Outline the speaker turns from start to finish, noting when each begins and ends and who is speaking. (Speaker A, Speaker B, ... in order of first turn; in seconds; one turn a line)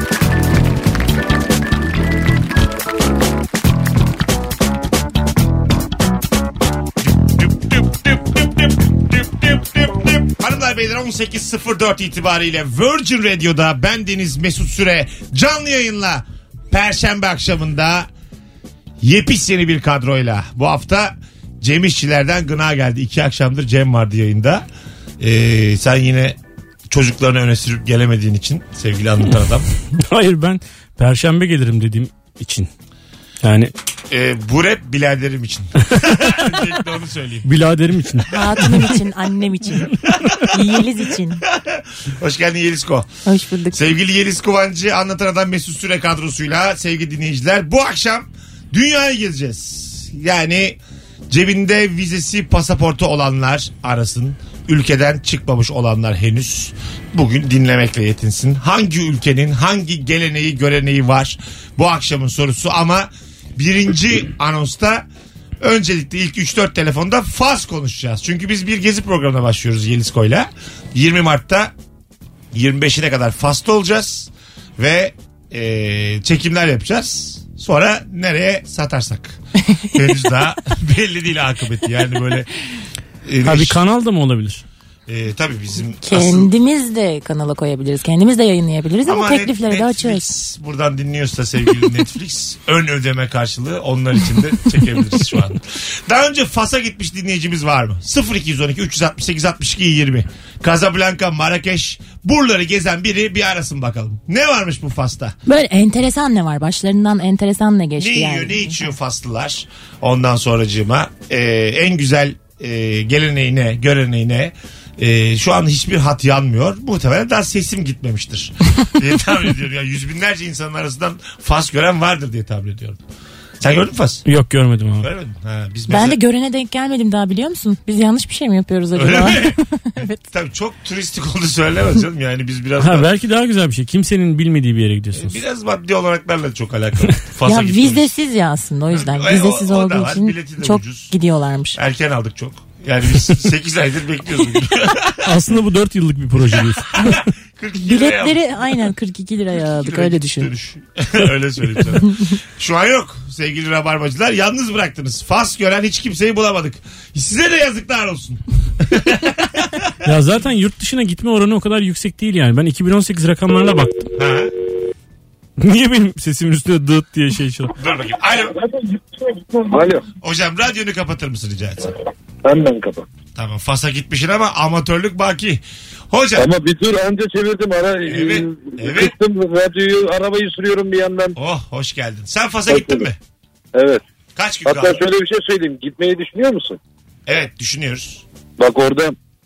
Speaker A: 7.2-18.1
Speaker A: 19.0-24.6
Speaker A: 25.2-26.4
Speaker A: 26.9-29.7
Speaker B: 29.9-32.7
Speaker B: 33.4-33.7
Speaker A: 34.1-37.5
Speaker B: 36.0-36.3
Speaker B: 37.5-39.0
Speaker C: 38.3-39.9
Speaker A: 40.1-40.5
Speaker C: 40.5-41.4
Speaker A: 41.5-43.1
Speaker C: 43.3-43.8
Speaker A: 43.7-50.8
Speaker A: 51.3-65.1
Speaker A: 65.6-71.7
Speaker A: 72.5-79.4
Speaker A: 79.9-82.5
Speaker A: 83.2-83.8
Speaker B: 83.5-84.6
Speaker A: 85.1-86.5
Speaker C: 86.0-90.2
Speaker A: 89.0-105.4
Speaker C: 105.5-108.9
Speaker A: 108.0-123.0
Speaker A: 123.6-124.2
Speaker B: 124.3-125.1
Speaker A: 125.0-126.2
Speaker C: 125.9-130.2
Speaker A: 128.9-129.6
Speaker A: 130.3-133.1
Speaker B: 132.8-135.4
Speaker A: 135.2-138.1
Speaker C: 137.5-141.8
Speaker A: 138.9-141.1
Speaker A: 141.8-145.3
Speaker B: 145.2-147.0
Speaker A: 146.6-148.9
Speaker C: 147.8-150.5
Speaker A: 149.6-159.9
Speaker B: 160.0-164.1
Speaker A: 164.2-164.5
Speaker B: 165.6-167.7
Speaker A: 167.8-168.6
Speaker D: 169.6-170.1
Speaker A: 170.2-171.9
Speaker D: 172.4-173.1
Speaker A: 173.3-176.5
Speaker D: 176.4-181.3
Speaker A: 178.1-179.2
Speaker A: 181.4-183.2
Speaker D: 182.7-183.1
Speaker D: 183.7-184.0
Speaker A: 184.4-185.0
Speaker D: 184.7-186.8
Speaker A: 187.3-188.2
Speaker D: 188.6-189.2